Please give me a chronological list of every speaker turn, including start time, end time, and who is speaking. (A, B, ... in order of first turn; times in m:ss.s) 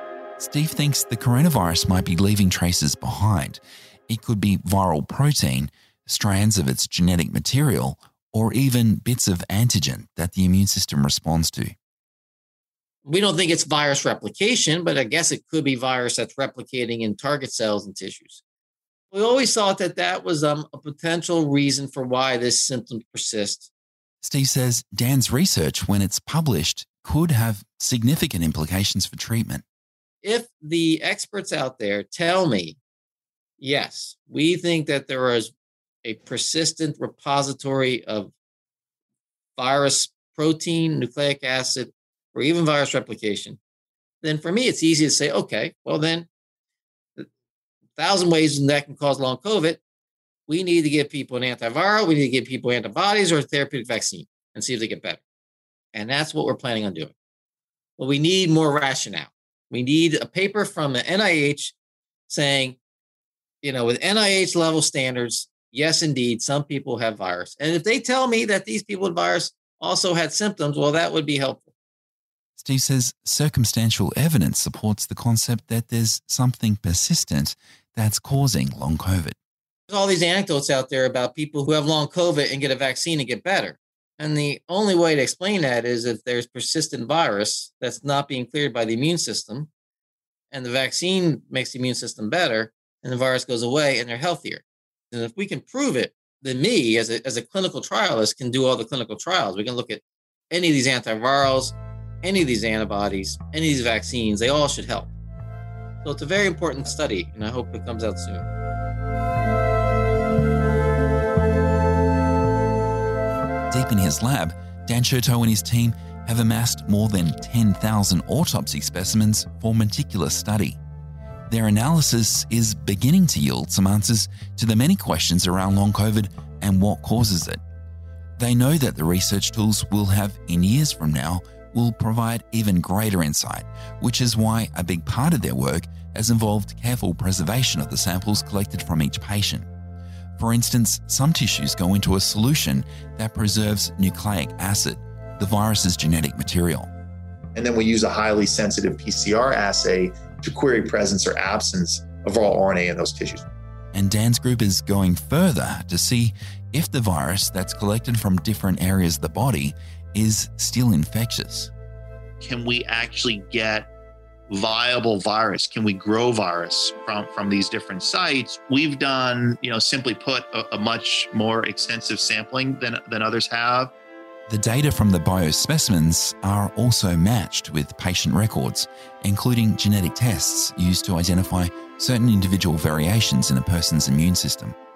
0:00.4-0:11.7 A
0:13.0-0:18.4 B
0:19.1-0:23.7 B
0:24.2-0:29.6 A
0:30.2-0:32.8 B
0:33.6-0:35.5 B
0:36.0-0:38.3 B
0:39.6-0:43.6 B
0:44.2-0:46.3 B
0:48.0-0:49.8 B
0:50.5-0:55.2 B
0:55.9-0:57.1 B
0:58.0-1:01.7 B
1:02.3-1:02.8 B
1:03.6-1:11.7 B
1:12.6-1:19.4 A
1:19.9-1:29.7 B
1:30.5-1:45.1 B
1:46.0-1:48.5 B
1:53.7-2:00.8 A
2:01.5-2:07.6 A
2:08.4-2:19.6 A
2:20.4-2:26.9 A
2:27.5-2:33.4 C
2:33.9-2:41.7 A
2:42.4-2:43.9 C
2:44.5-2:53.9 C
2:54.5-3:04.7 A